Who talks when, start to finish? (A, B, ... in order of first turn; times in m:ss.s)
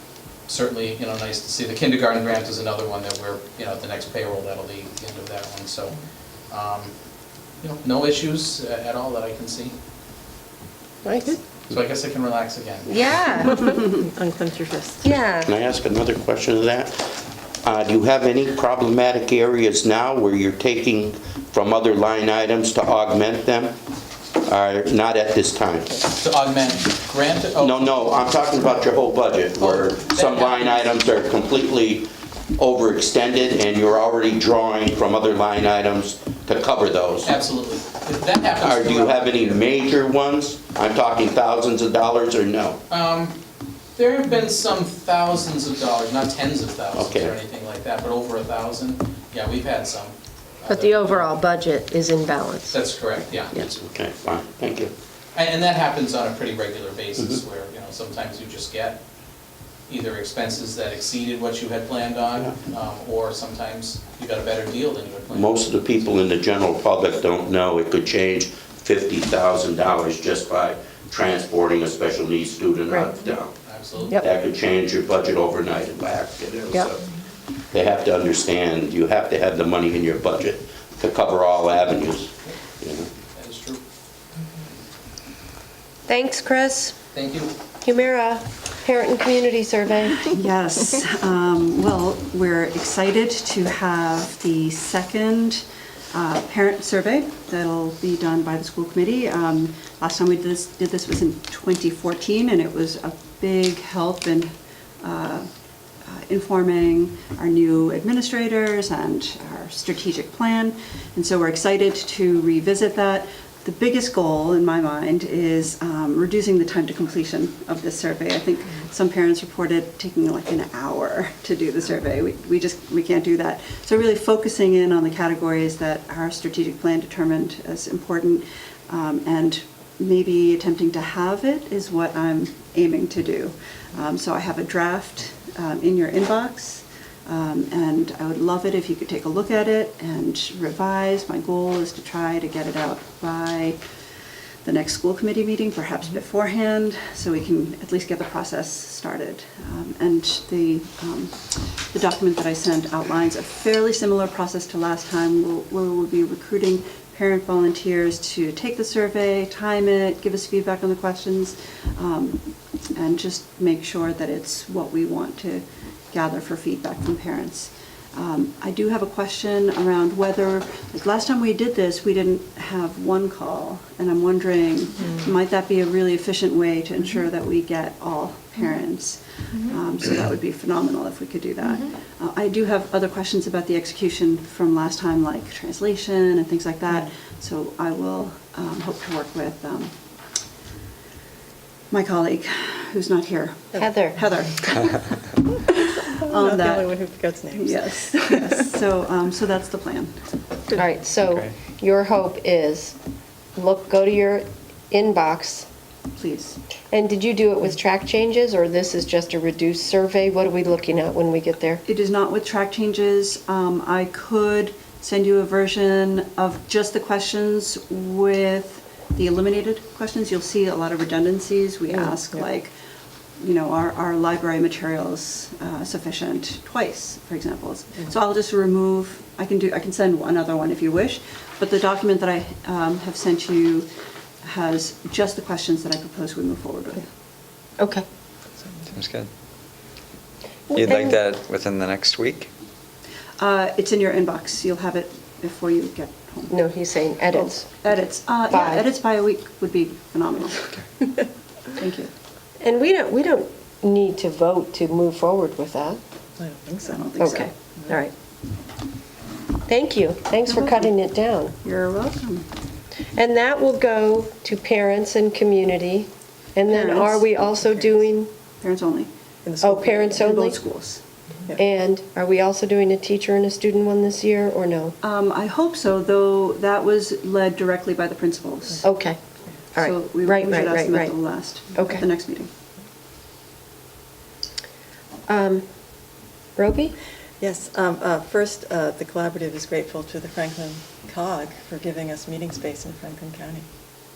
0:00.5-0:06.0 A
0:06.5-0:06.9 A
0:07.6-0:09.7 A
0:11.0-0:11.4 B
0:11.7-0:13.3 A
0:12.9-0:13.8 B
0:13.6-0:15.1 C
0:15.0-0:15.5 B
0:15.4-0:17.0 D
0:17.6-0:23.8 D
0:24.4-0:26.0 D
0:26.2-0:27.9 A
0:27.6-0:37.3 D
0:29.6-0:31.0 A
0:37.2-0:39.6 A
0:38.6-0:42.8 D
0:42.9-0:43.4 A
0:43.9-0:51.4 A
0:46.9-0:47.3 D
0:50.7-0:52.8 B
0:52.7-0:53.7 A
0:53.5-0:54.9 D
0:55.3-0:59.0 A
0:59.9-1:05.7 A
1:05.3-1:13.5 D
1:13.6-1:14.2 A
1:14.2-1:17.0 D
1:17.7-1:23.1 D
1:23.3-1:23.8 A
1:26.1-1:27.0 B
1:27.1-1:27.5 A
1:27.8-1:30.2 B
1:30.3-1:44.5 E
1:45.0-1:45.4 E
1:46.0-2:23.8 E
2:24.6-2:42.4 E
2:42.9-3:09.9 E
3:11.9-3:15.2 E
3:13.7-3:14.0 C
3:13.8-3:14.2 B
3:16.0-3:18.6 C
3:16.3-3:16.9 E
3:17.5-3:20.1 E
3:20.8-3:23.0 B
3:23.6-3:25.6 B
3:26.2-3:26.6 E
3:26.9-3:31.8 B
3:31.8-3:42.7 E
3:42.0-3:42.4 C
3:43.4-3:53.9 E
3:54.4-3:57.1 E
3:57.8-3:58.0 B
3:58.9-3:59.3 F
4:00.7-4:01.3 B
4:00.7-4:02.5 F
4:03.4-4:06.7 E
4:06.5-4:08.0 B
4:07.3-4:10.8 E
4:08.5-4:08.9 B
4:11.8-4:12.1 E
4:12.6-4:16.0 B
4:16.4-4:17.1 C
4:16.8-4:17.5 E
4:17.2-4:18.1 B
4:19.7-4:21.5 B
4:20.4-4:20.9 E
4:21.6-4:22.5 E
4:23.2-4:28.3 B
4:26.7-4:27.6 E
4:28.6-4:29.1 E
4:29.4-4:30.1 C
4:29.6-4:30.6 B
4:30.0-4:31.0 E
4:31.5-4:35.0 B
4:35.0-4:38.8 E
4:38.8-4:39.2 B
4:39.7-4:41.2 B
4:39.8-4:42.5 E
4:41.8-4:42.0 B
4:45.3-4:45.6 B
4:46.6-4:47.0 B
4:47.4-4:53.7 C